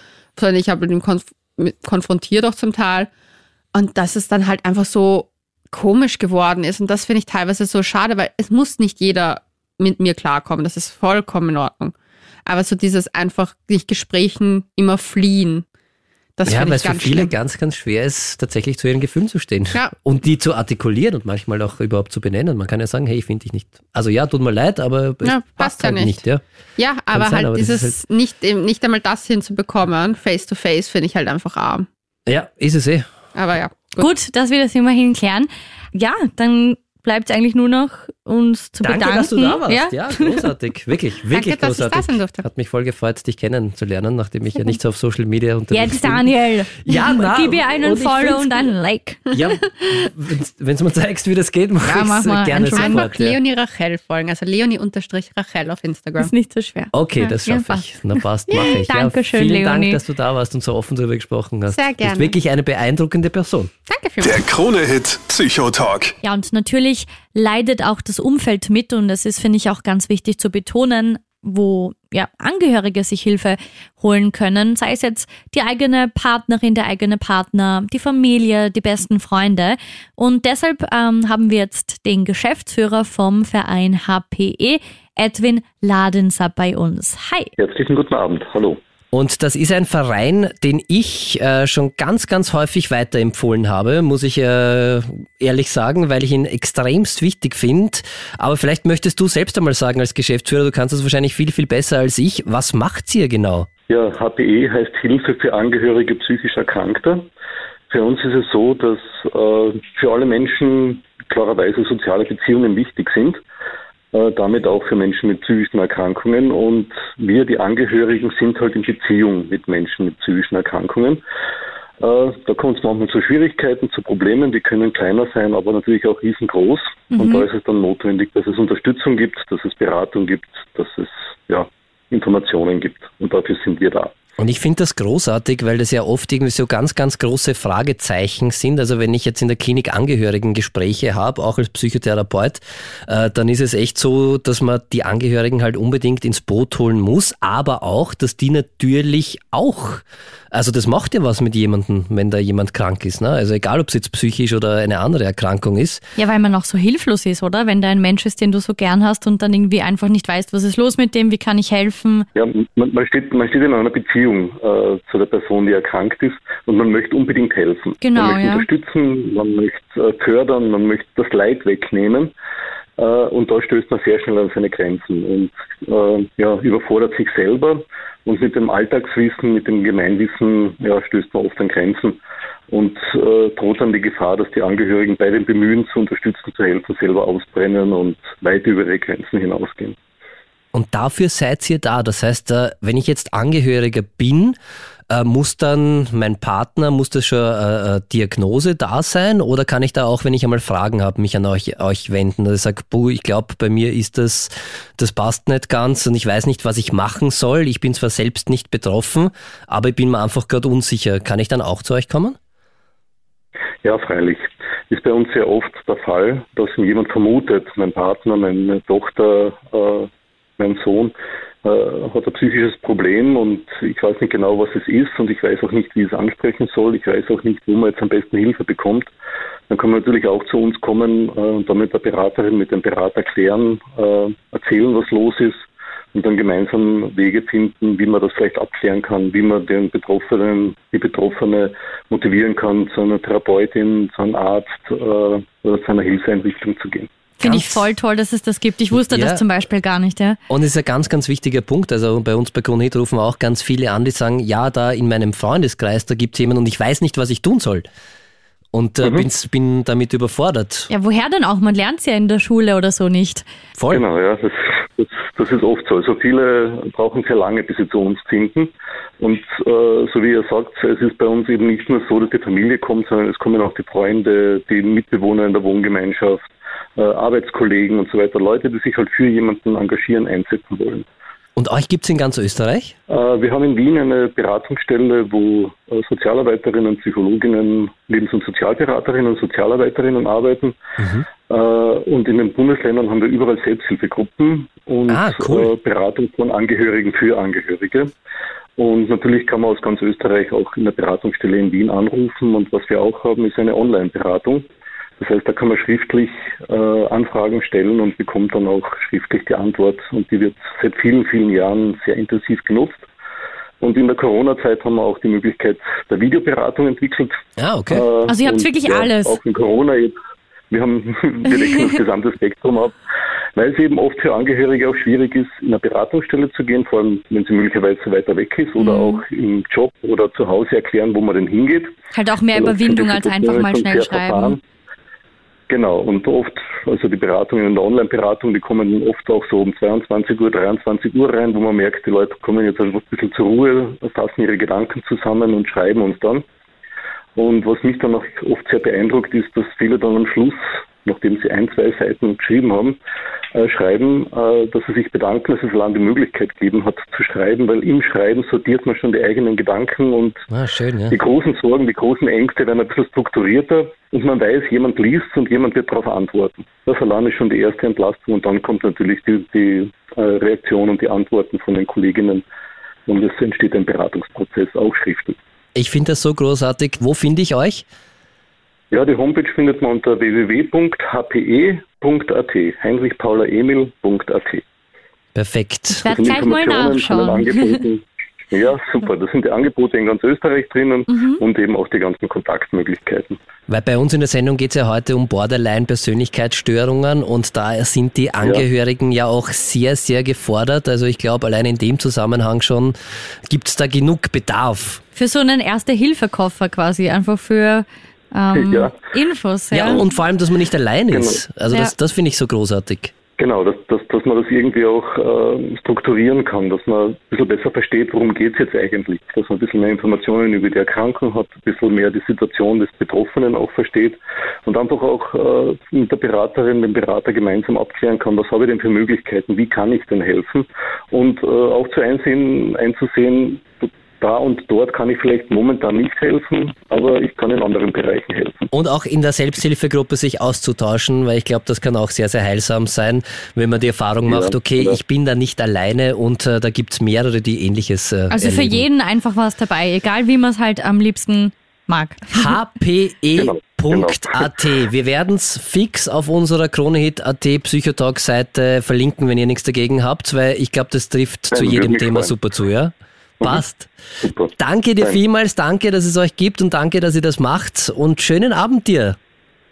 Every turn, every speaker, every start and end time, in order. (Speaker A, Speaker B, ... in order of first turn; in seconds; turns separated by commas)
Speaker A: 0.3-3.1, Speaker A: 3.7-11.9, Speaker A: 12.4-15.6, Speaker A: 16.4-17.3, Speaker B: 16.4-26.4, Speaker A: 25.2-26.2, Speaker A: 26.8-31.9, Speaker B: 27.1-27.9, Speaker B: 32.3-33.1, Speaker A: 33.3-34.1, Speaker C: 34.0-40.5, Speaker B: 38.8-48.7, Speaker A: 41.3-42.5, Speaker C: 45.7-49.2, Speaker B: 49.3-53.4, Speaker C: 51.8-53.0, Speaker A: 52.8-56.3, Speaker C: 56.2-60.0, Speaker B: 56.9-63.7, Speaker A: 58.5-58.8, Speaker A: 61.7-62.3, Speaker A: 63.9-64.4, Speaker D: 64.2-66.2, Speaker C: 66.2-87.5, Speaker E: 87.6-88.8, Speaker B: 89.1-103.7, Speaker E: 103.9-107.3, Speaker E: 107.9-113.4, Speaker E: 114.1-121.2, Speaker E: 122.0-134.2, Speaker C: 127.1-127.5, Speaker B: 134.4-156.0, Speaker C: 156.2-162.2, Speaker E: 162.3-172.3, Speaker C: 168.0-168.7, Speaker E: 173.0-190.0, Speaker B: 190.7-194.6, Speaker B: 195.1-212.4, Speaker E: 213.8-221.1, Speaker E: 221.6-229.1, Speaker E: 229.7-247.1, Speaker C: 247.4-250.4, Speaker B: 247.4-247.8, Speaker B: 248.9-249.4, Speaker B: 250.5-257.9, Speaker B: 258.7-260.9, Speaker C: 260.9-263.4, Speaker B: 263.8-264.0, Speaker E: 263.9-281.1, Speaker B: 281.6-282.9, Speaker E: 283.1-290.8, Speaker B: 291.0-291.2, Speaker E: 291.5-298.1, Speaker B: 295.1-295.7, Speaker E: 298.8-304.6, Speaker E: 305.2-313.1, Speaker E: 313.8-317.4, Speaker B: 317.6-318.1, Speaker E: 317.9-320.1, Speaker C: 318.3-319.4, Speaker E: 320.7-323.0, Speaker E: 323.6-332.0, Speaker C: 328.8-329.2, Speaker C: 332.1-334.6, Speaker E: 332.5-334.6, Speaker E: 335.7-346.4, Speaker E: 347.4-353.0, Speaker E: 353.5-360.4, Speaker B: 360.5-361.1, Speaker E: 361.1-372.4, Speaker E: 373.1-375.4, Speaker B: 375.7-377.8, Speaker E: 378.9-384.6, Speaker B: 385.3-386.1, Speaker C: 386.0-387.8, Speaker E: 386.1-393.4, Speaker C: 391.1-391.4, Speaker B: 393.7-402.9, Speaker B: 403.5-405.0, Speaker C: 405.1-410.0, Speaker E: 408.5-408.9, Speaker B: 409.7-413.1, Speaker E: 411.1-411.4, Speaker E: 413.4-438.7, Speaker B: 438.7-448.8, Speaker E: 444.3-445.0, Speaker C: 448.3-452.4, Speaker B: 452.3-463.9, Speaker E: 453.4-454.5, Speaker E: 461.5-462.4, Speaker E: 464.2-465.2, Speaker B: 464.6-469.2